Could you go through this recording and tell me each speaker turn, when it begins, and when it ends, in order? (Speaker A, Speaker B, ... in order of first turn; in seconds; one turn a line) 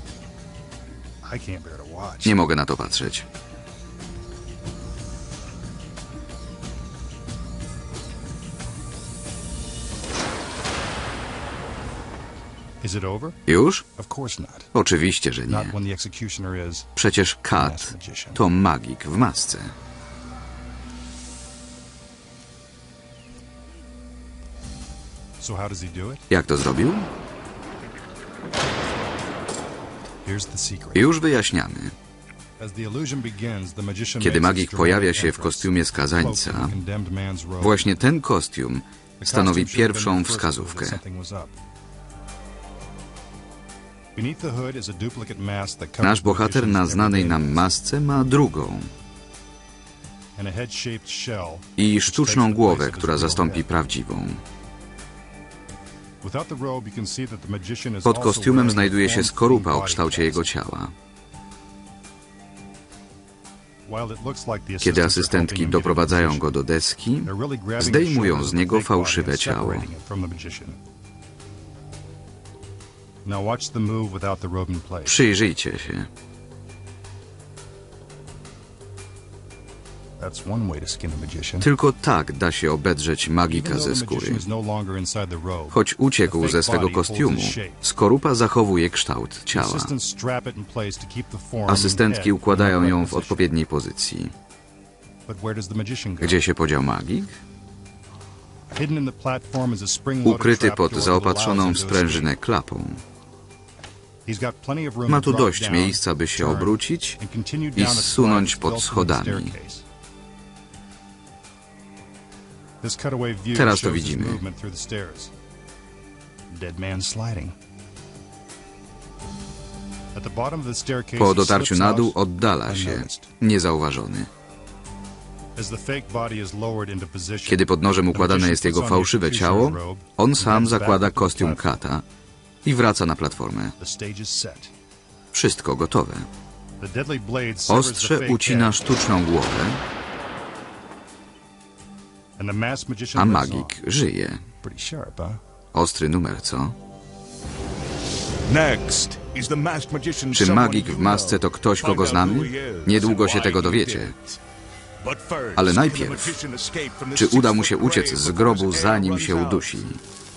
Speaker A: 1.2-2.4
Speaker B: 2.2-3.3
Speaker A: 12.8-13.4
Speaker B: 13.5-13.8
Speaker A: 13.9-14.7
Speaker B: 14.7-15.8
Speaker A: 15.5-16.9
Speaker B: 16.9-19.7
Speaker A: 17.5-18.4
Speaker A: 25.4-26.2
Speaker B: 26.3-27.1
Speaker A: 30.2-31.1
Speaker B: 30.9-31.9
Speaker A: 32.6-38.0
Speaker B: 34.2-36.8
Speaker B: 37.6-41.0
Speaker A: 39.2-41.6
Speaker A: 44.1-47.8
Speaker B: 46.0-48.9
Speaker A: 50.4-53.7
Speaker B: 51.8-54.4
Speaker A: 56.2-60.5
Speaker B: 58.0-60.9
Speaker A: 63.9-66.5
Speaker B: 64.8-69.9
Speaker A: 67.2-70.8
Speaker A: 73.2-75.2
Speaker B: 75.0-76.1
Speaker A: 80.2-81.7
Speaker B: 81.6-84.5
Speaker A: 83.5-87.8
Speaker B: 85.7-89.9
Speaker A: 89.5-93.5
Speaker B: 91.7-94.3
Speaker A: 95.3-96.4
Speaker B: 96.2-97.3
Speaker A: 98.7-102.3
Speaker B: 100.2-103.0
Speaker A: 104.2-109.8
Speaker B: 105.1-107.2
Speaker B: 107.8-109.5
Speaker A: 112.8-115.3
Speaker B: 113.5-114.4
Speaker A: 116.5-117.5
Speaker A: 120.1-123.3
Speaker B: 121.2-124.3
Speaker A: 125.6-131.7
Speaker B: 127.5-132.0
Speaker B: 132.6-133.7
Speaker A: 133.8-134.7
Speaker B: 135.3-136.3
Speaker A: 136.8-138.8
Speaker B: 137.7-139.8
Speaker A: 142.4-143.7
Speaker B: 143.1-144.4
Speaker A: 144.6-145.4
Speaker B: 145.7-146.8
Speaker C: 148.4-154.4
Speaker B: 150.3-154.2
Speaker C: 155.0-159.7
Speaker B: 155.6-156.4
Speaker B: 157.1-160.0